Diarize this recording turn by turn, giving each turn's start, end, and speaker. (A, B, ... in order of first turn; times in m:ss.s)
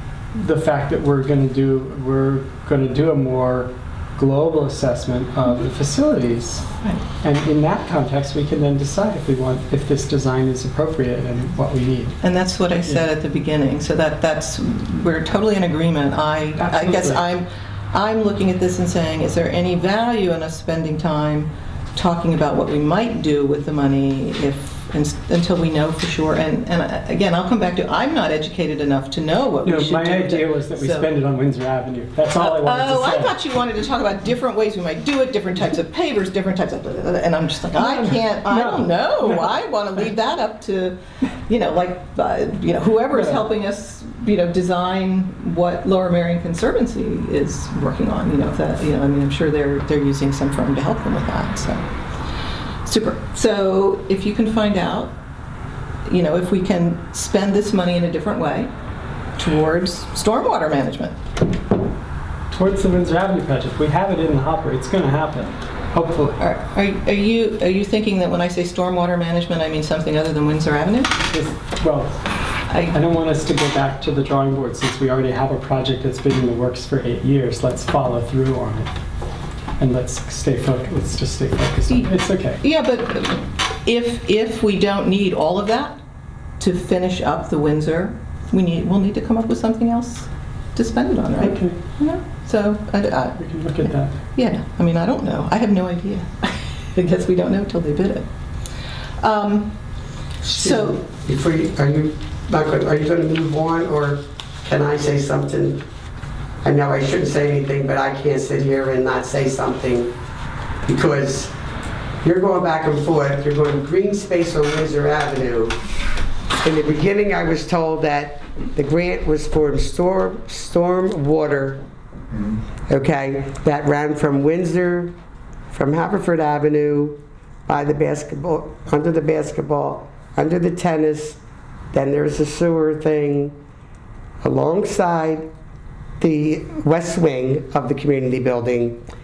0:00.3-0:06.7 A
0:07.2-0:12.2 A
0:12.2-0:31.1 B
0:16.6-0:17.3 A
0:29.6-0:33.4 A
0:32.4-0:51.8 B
0:37.7-0:39.7 A
0:43.1-0:43.4 A
0:52.9-0:55.1 B
0:56.1-0:58.7 B
0:59.4-1:01.2 B
1:02.5-1:06.4 A
1:06.4-1:11.1 B
1:11.3-1:12.2 A
1:12.7-1:13.0 B
1:12.9-1:18.9 A
1:19.8-1:22.6 A
1:22.6-1:26.0 B
1:26.6-1:38.3 B
1:31.4-1:31.8 A
1:33.4-1:34.2 A
1:39.2-1:39.8 B
1:40.4-1:45.8 C
1:40.5-1:41.0 B
1:46.6-1:50.1 C
1:50.8-1:51.5 C
1:52.2-1:55.8 C
1:56.6-2:01.8 C
2:02.9-2:05.2 C
2:05.7-2:11.4 C
2:11.9-2:13.6 C
2:14.4-2:15.5 C
2:16.2-2:19.0 C